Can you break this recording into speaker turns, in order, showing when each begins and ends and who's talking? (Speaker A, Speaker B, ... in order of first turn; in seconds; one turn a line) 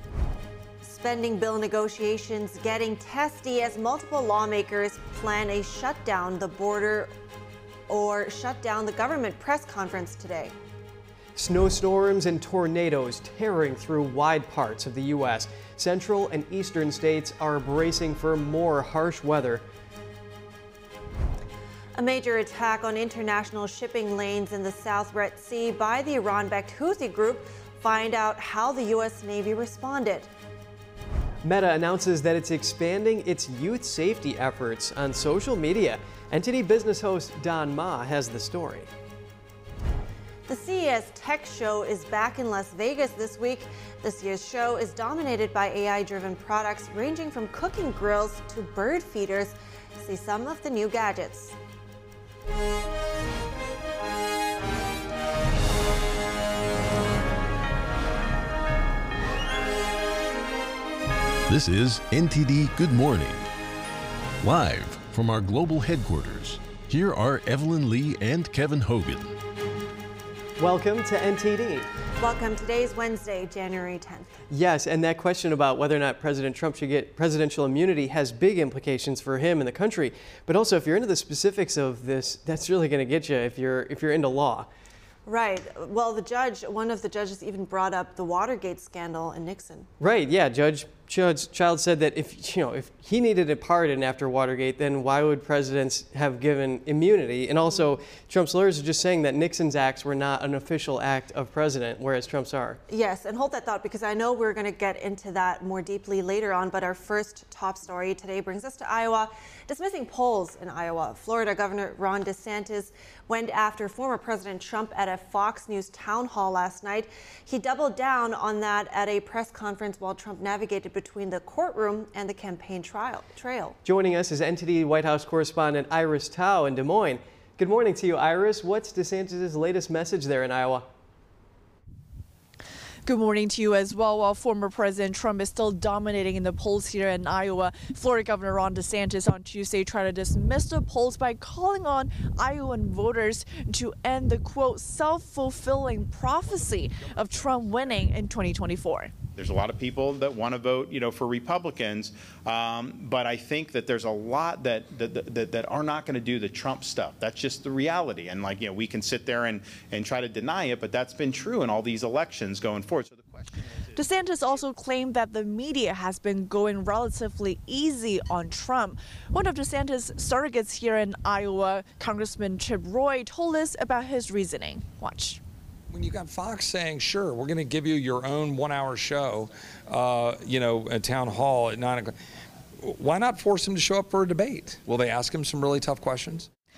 Speaker A: 0.8-7.1
Speaker A: 7.9-10.5
Speaker B: 11.3-19.6
Speaker A: 21.9-30.3
Speaker B: 31.4-38.9
Speaker A: 40.5-51.5
Speaker C: 61.5-63.5
Speaker C: 64.4-69.4
Speaker B: 70.6-71.9
Speaker A: 72.2-74.3
Speaker B: 74.5-84.7
Speaker A: 85.2-89.9
Speaker B: 90.0-102.8
Speaker A: 102.9-123.8
Speaker B: 123.8-130.8
Speaker D: 133.0-149.1
Speaker E: 149.3-163.9
Speaker D: 163.9-175.4
Speaker F: 175.9-182.1
Speaker F: 182.8-186.5